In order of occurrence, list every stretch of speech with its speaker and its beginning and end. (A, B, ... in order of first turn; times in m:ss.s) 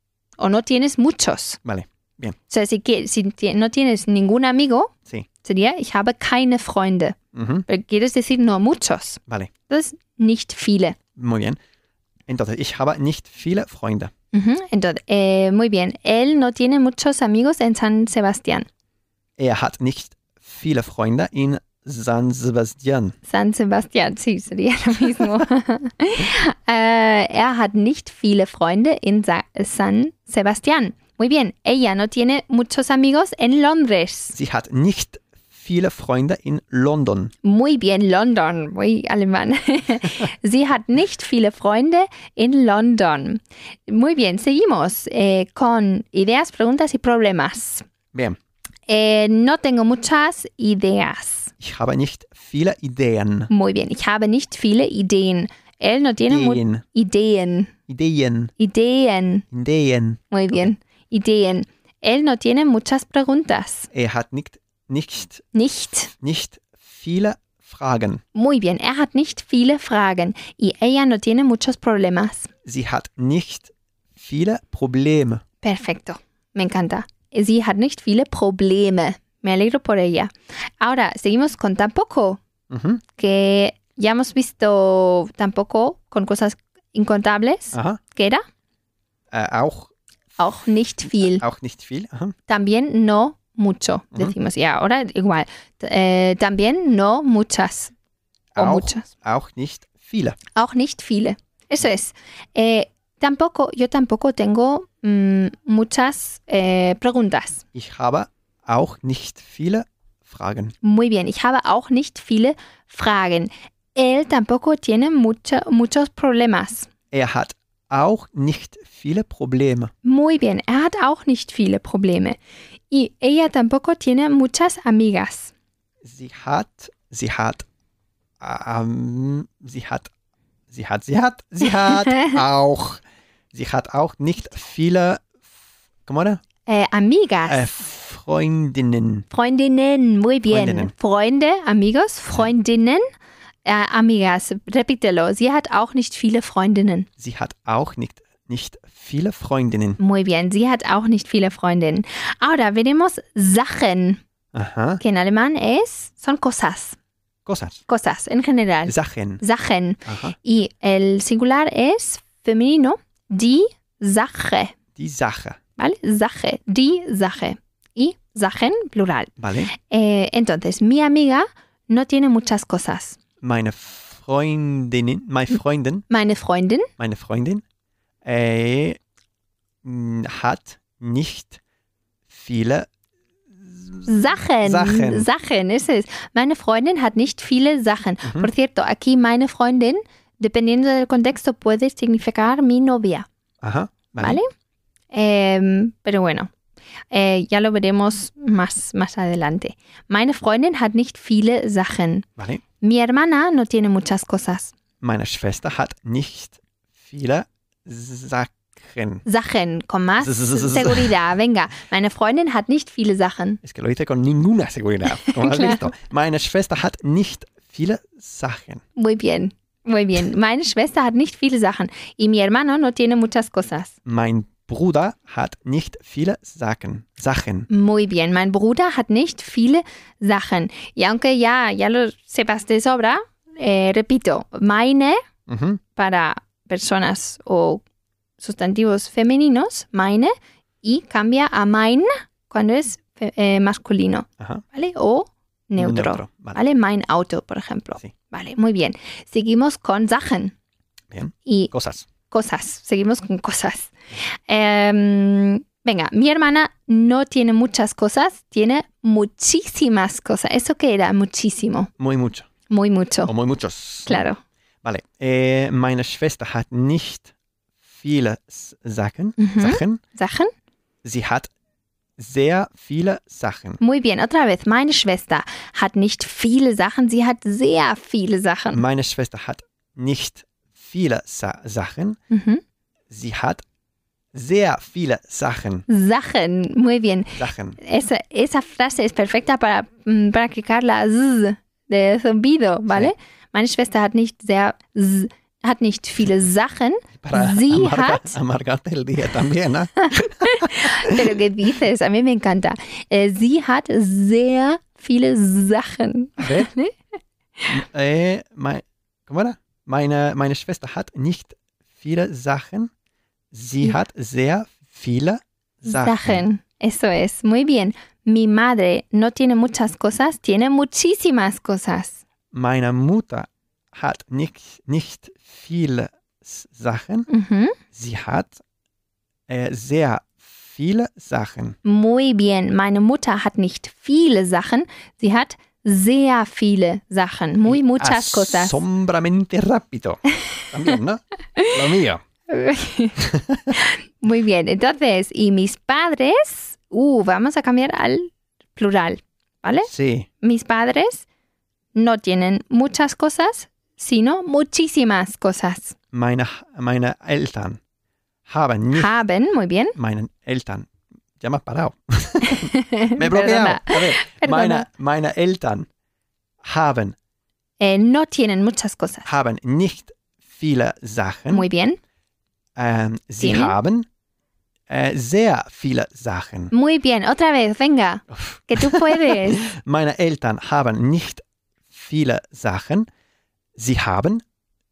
0:00.4-0:01.6 A
0:01.6-0:02.4 B
0:02.5-0:04.9 A
0:05.4-0:11.0 A
0:07.3-0:07.6 B
0:11.2-0:11.6 B
0:12.3-0:14.1 B
0:14.3-0:18.7 A
0:19.4-0:23.1 B
0:23.3-0:34.4 A
0:34.3-0:37.3 B
0:37.4-0:47.8 A
0:48.9-0:51.5 A
0:51.6-0:53.5 B
0:53.5-0:57.7 A
0:56.3-0:56.8 B
0:57.9-0:58.5 B
0:58.6-0:59.4 A
0:59.5-1:00.7 B
1:00.3-1:03.9 A
1:03.9-1:05.4 B
1:05.5-1:06.1 A
1:06.1-1:08.2 B
1:08.3-1:12.5 A
1:12.6-1:15.4 B
1:15.6-1:22.4 A
1:22.7-1:23.0 B
1:23.2-1:28.4 A
1:27.7-1:28.0 B
1:29.3-1:29.9 B
1:30.4-1:31.4 A
1:31.1-1:32.3 B
1:32.5-1:37.9 A
1:38.5-1:40.4 B
1:38.6-1:39.1 A
1:40.5-1:47.6 A
1:47.7-1:50.7 B
1:50.8-1:56.9 A
1:57.1-1:59.9 B
2:00.0-2:02.4 A
2:02.9-2:05.5 A
2:06.0-2:07.6 B
2:08.4-2:10.1 B
2:10.7-2:13.0 B
2:11.8-2:12.4 A
2:13.5-2:15.2 B
2:16.0-2:16.4 B
2:16.7-2:17.7 A
2:17.5-2:19.2 B
2:19.3-2:23.0 A
2:20.5-2:20.9 B
2:23.6-2:27.1 A
2:27.2-2:30.0 B
2:30.0-2:34.2 A
2:34.5-2:35.0 B
2:35.0-2:37.0 A
2:37.4-2:37.8 B
2:37.9-2:44.8 A
2:38.9-2:39.4 B
2:40.0-2:40.3 B
2:45.0-2:45.6 B
2:45.8-2:53.2 A
2:49.4-2:49.7 B
2:53.4-2:56.0 B
2:56.1-2:56.9 A
2:57.0-2:57.6 B
2:58.2-2:59.0 B
2:59.8-3:01.6 B
3:02.3-3:02.9 B
3:03.5-3:05.3 B
3:04.0-3:13.3 A
3:08.2-3:08.5 B
3:13.6-3:14.4 B
3:14.2-3:14.5 A
3:15.1-3:16.5 A
3:17.1-3:22.3 A
3:22.8-3:24.7 A
3:25.0-3:29.2 B
3:29.2-3:33.6 A
3:30.2-3:31.2 B
3:33.6-3:38.8 B
3:35.1-3:35.9 A
3:39.0-3:43.9 A
3:44.0-3:47.7 B
3:47.7-3:55.2 A
3:55.5-3:55.8 B
3:56.0-3:57.8 A
3:58.4-4:10.5 A
4:05.8-4:06.6 B
4:11.1-4:12.0 B
4:11.4-4:11.7 A
4:12.3-4:13.9 A
4:14.5-4:21.9 A
4:22.0-4:22.5 B
4:22.7-4:23.3 A
4:23.2-4:24.3 B
4:24.0-4:24.4 A
4:24.8-4:27.3 B
4:27.9-4:30.0 B
4:29.4-4:30.5 A
4:31.0-4:31.5 B
4:32.2-4:33.8 B
4:33.8-4:38.8 A
4:38.7-4:42.2 B
4:42.3-4:42.6 A
4:43.1-4:43.6 B
4:44.3-4:45.8 B
4:45.9-4:58.4 A
4:47.4-4:47.8 B
4:57.2-5:01.4 B
5:00.0-5:06.9 A
5:06.4-5:06.7 B
5:07.7-5:12.9 B
5:13.5-5:16.4 B
5:15.8-5:22.2 A
5:22.5-5:27.3 B
5:27.3-5:27.8 A
5:27.9-5:28.6 B
5:29.5-5:31.8 B
5:31.8-5:38.8 A
5:37.6-5:42.2 B
5:42.5-5:49.9 A
5:43.2-5:43.7 B
5:49.8-5:50.3 B
5:50.4-5:51.2 A
5:51.9-5:56.0 A
5:56.1-5:57.8 B
5:58.5-5:59.1 B
5:58.9-6:00.0 A
6:00.0-6:00.9 B
6:01.4-6:05.9 B
6:02.4-6:04.9 A
6:06.6-6:07.2 B
6:07.8-6:09.3 A
6:09.2-6:11.6 B
6:11.5-6:12.0 A
6:12.8-6:14.0 B
6:13.4-6:13.7 A
6:14.9-6:16.7 B
6:16.7-6:19.7 A
6:18.3-6:23.0 B
6:23.8-6:24.4 B